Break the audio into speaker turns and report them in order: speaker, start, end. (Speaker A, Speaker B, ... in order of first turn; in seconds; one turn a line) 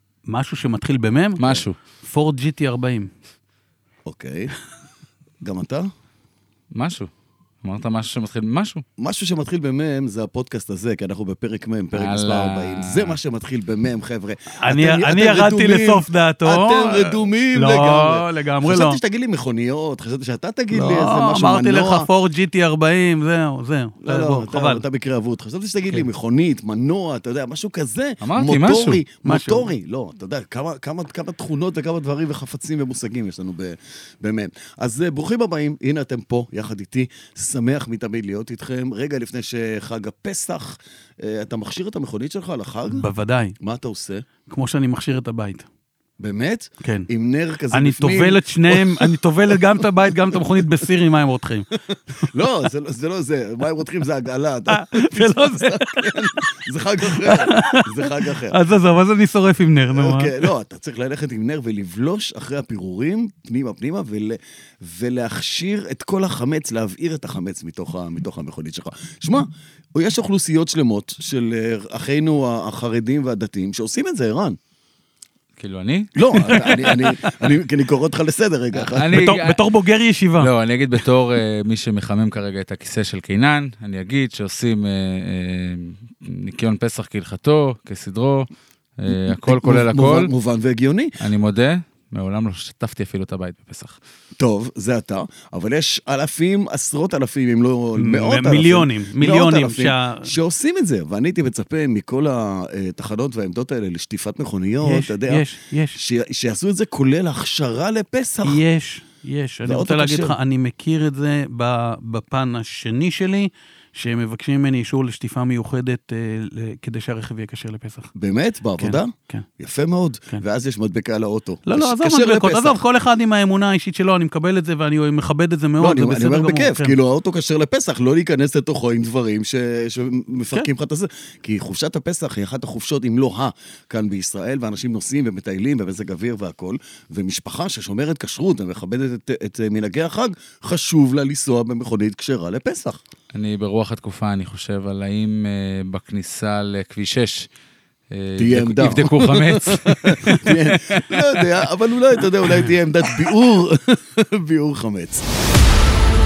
Speaker A: 0.3-1.4
Speaker B: 1.4-1.8
Speaker A: 2.0-3.1
Speaker C: 4.1-4.5
Speaker C: 5.4-5.9
Speaker B: 6.7-7.1
Speaker B: 7.6-8.8
Speaker C: 9.0-22.1
Speaker B: 11.9-13.2
Speaker A: 14.6-19.0
Speaker A: 20.7-24.8
Speaker C: 24.0-43.1
Speaker B: 28.2-29.0
Speaker A: 29.2-29.7
Speaker A: 42.9-43.5
Speaker C: 43.6-44.2
Speaker A: 44.5-45.7
Speaker C: 46.2-50.9
Speaker A: 46.8-47.1
Speaker A: 47.7-52.5
Speaker C: 51.9-58.6
Speaker A: 54.7-56.5
Speaker A: 57.0-60.5
Speaker C: 59.9-74.6
Speaker B: 75.6-76.7
Speaker C: 76.1-79.4
Speaker A: 76.4-77.6
Speaker B: 78.8-79.7
Speaker A: 79.1-80.5
Speaker B: 80.4-90.3
Speaker C: 89.1-91.2
Speaker B: 91.2-94.0
Speaker C: 94.4-108.6
Speaker A: 98.0-100.3
Speaker A: 104.8-106.0
Speaker A: 108.5-118.1
Speaker C: 109.6-110.3
Speaker C: 118.1-122.8
Speaker A: 118.8-119.5
Speaker A: 121.7-127.0
Speaker C: 125.8-143.0
Speaker B: 143.3-147.5
Speaker B: 148.1-151.5
Speaker C: 148.4-155.2